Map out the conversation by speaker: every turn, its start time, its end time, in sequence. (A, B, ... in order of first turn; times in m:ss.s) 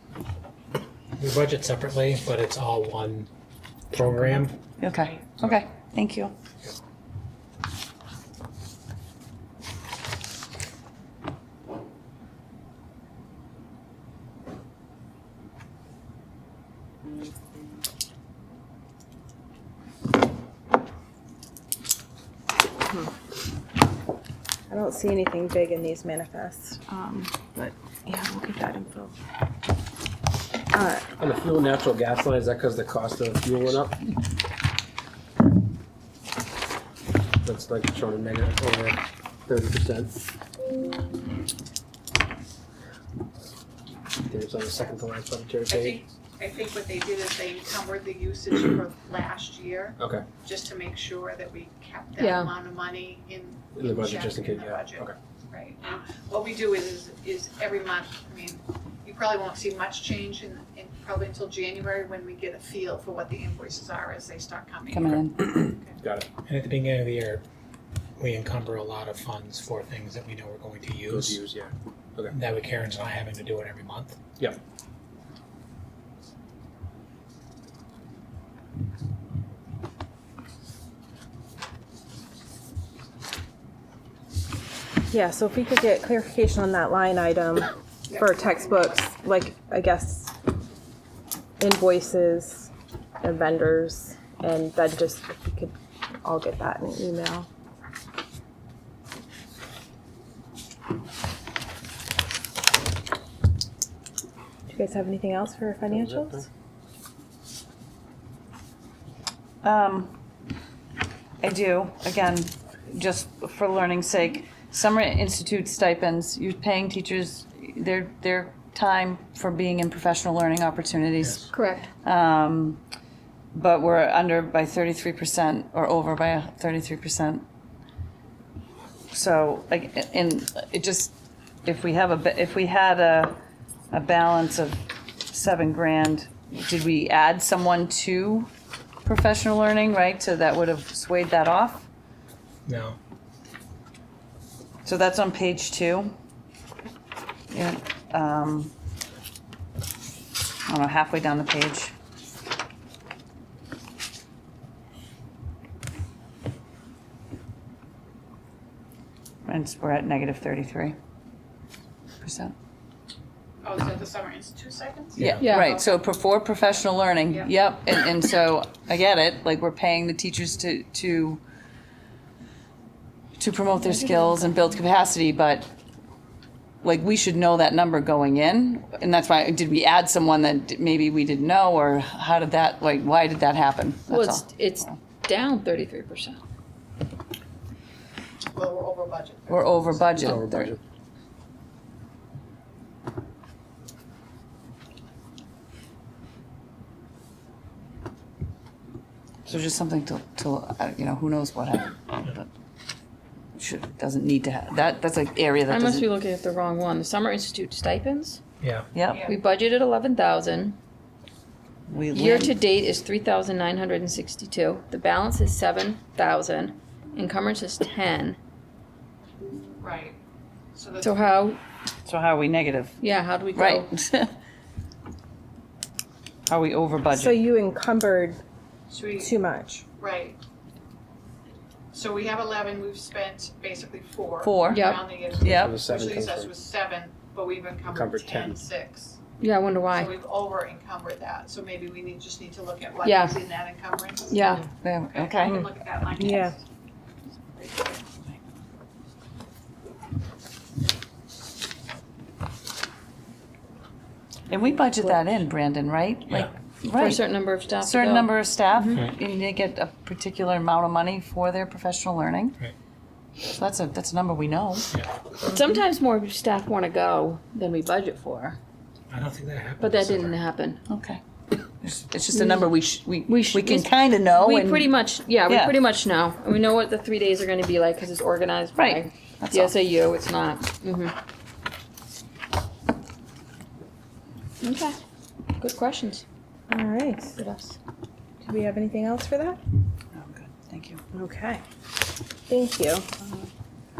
0:01.2-0:03.3 A
0:03.9-0:04.6 A
0:04.8-0:06.3 B
0:24.7-0:29.1 C
0:30.7-0:31.1 C
0:31.2-0:34.0 D
0:37.4-0:40.2 D
0:44.2-0:46.0 D
0:45.7-1:06.0 E
0:50.0-0:50.3 D
0:52.2-0:52.5 F
0:53.7-0:55.1 D
1:04.9-1:05.7 B
1:06.0-1:06.3 D
1:06.4-1:07.4 A
1:08.2-1:11.4 A
1:11.1-1:12.3 D
1:12.3-1:14.2 A
1:25.1-1:30.3 C
1:28.1-1:29.0 E
1:31.6-1:37.5 C
1:44.7-1:46.4 C
1:49.6-1:50.1 B
1:51.4-2:01.5 B
2:01.5-2:01.9 F
2:02.0-2:02.8 B
2:03.5-2:07.4 B
2:09.1-2:13.4 B
2:13.9-2:18.5 B
2:19.0-2:21.9 B
2:22.6-2:23.0 A
2:24.8-2:26.1 B
2:27.5-2:28.7 B
2:30.7-2:31.9 B
2:39.4-2:41.0 B
2:42.2-2:42.5 B
2:43.6-2:46.0 E
2:45.2-2:51.4 B
2:45.2-2:45.4 A
2:45.4-2:45.7 F
2:53.4-2:55.7 B
2:56.8-3:05.0 B
3:04.1-3:06.4 F
3:08.5-3:09.9 E
3:09.5-3:10.8 B
3:10.2-3:10.8 D
3:19.4-3:22.5 B
3:23.6-3:26.1 B
3:25.7-3:28.4 F
3:28.6-3:28.9 A
3:28.9-3:29.3 B
3:29.1-3:29.4 E
3:29.2-3:30.8 F
3:31.9-3:32.5 B
3:32.1-3:38.4 F
3:39.8-3:40.2 E
3:40.7-3:41.4 E
3:41.0-3:41.6 F
3:42.0-3:43.0 B
3:43.0-3:43.9 F
3:43.5-3:44.3 B
3:46.5-3:47.4 B
3:47.1-3:48.4 C
3:48.9-3:49.3 E
3:49.2-3:49.8 C
3:50.0-3:50.4 E
3:51.9-3:59.2 E
3:54.4-3:55.7 B
3:54.7-3:55.1 F
3:55.4-3:56.6 D
3:57.9-3:58.6 D
3:59.4-4:00.1 F
3:59.9-4:06.6 E
4:03.0-4:03.4 F
4:04.3-4:04.6 F
4:04.8-4:05.6 B
4:05.4-4:06.5 C
4:07.6-4:08.0 E
4:14.5-4:17.3 B
4:16.8-4:19.0 F
4:17.8-4:22.6 B
4:23.5-4:24.9 B
4:25.4-4:28.6 F
4:29.1-4:30.4 A
4:29.8-4:30.8 F
4:30.9-4:31.2 B
4:31.8-4:34.9 B
4:32.3-4:32.7 F
4:33.2-4:41.1 F
4:35.5-4:35.7 B
4:38.8-4:39.7 B
4:44.6-4:45.0 F
4:45.6-4:46.2 F
4:46.7-4:47.5 C
4:47.4-4:47.7 F
4:48.4-4:49.6 C
4:50.1-4:51.0 B
4:51.1-4:51.6 C
4:52.5-4:53.3 C